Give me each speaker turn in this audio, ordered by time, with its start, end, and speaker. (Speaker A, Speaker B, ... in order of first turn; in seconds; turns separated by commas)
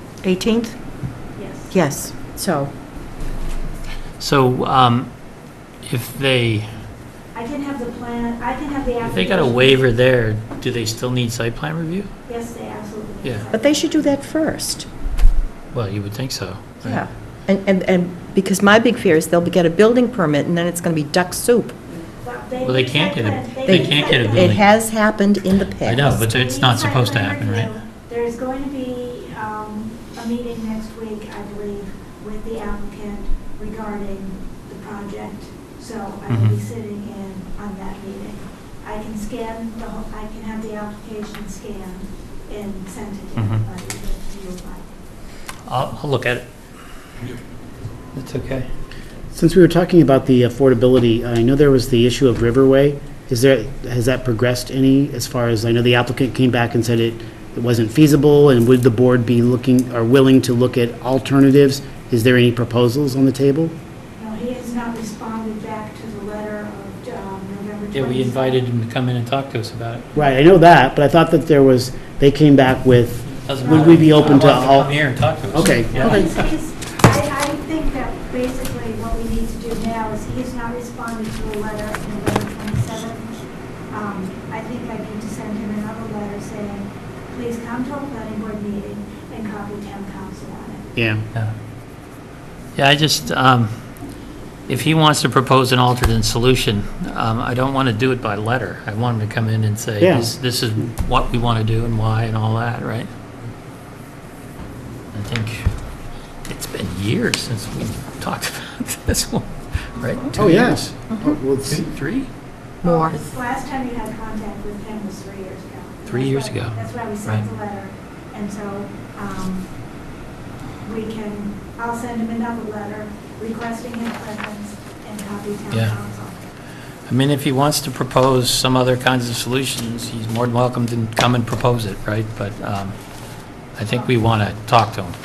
Speaker A: 0.2-0.8, Speaker B: 1.3-1.8, Speaker A: 1.7-2.7, Speaker C: 4.2-5.1, Speaker C: 5.8-6.7, Speaker B: 7.3-9.8, Speaker C: 9.0-12.1, Speaker B: 12.2-14.1, Speaker A: 13.5-14.9, Speaker C: 15.7-17.0, Speaker A: 16.8-21.8, Speaker B: 22.2-24.6, Speaker C: 22.6-24.6, Speaker A: 23.6-26.2, Speaker C: 25.8-27.7, Speaker B: 26.3-44.9, Speaker C: 36.3-36.5, Speaker C: 43.4-43.6, Speaker C: 45.6-46.5, Speaker C: 48.1-48.7, Speaker D: 49.3-63.7, Speaker B: 64.2-68.6, Speaker C: 67.9-70.0, Speaker D: 70.1-74.9, Speaker C: 73.3-76.4, Speaker B: 73.6-74.3, Speaker D: 75.5-76.3, Speaker B: 75.7-83.3, Speaker B: 83.9-90.9, Speaker D: 91.0-91.2, Speaker C: 92.8-93.7, Speaker C: 94.7-103.1, Speaker D: 100.0-100.3, Speaker C: 105.1-105.7, Speaker C: 106.5-110.9, Speaker D: 110.3-111.9, Speaker A: 111.1-111.4, Speaker C: 111.7-112.3, Speaker A: 112.8-113.1, Speaker B: 112.8-119.7, Speaker C: 116.1-117.4, Speaker B: 120.8-126.5, Speaker C: 127.1-132.9, Speaker C: 133.7-135.2, Speaker B: 133.9-134.1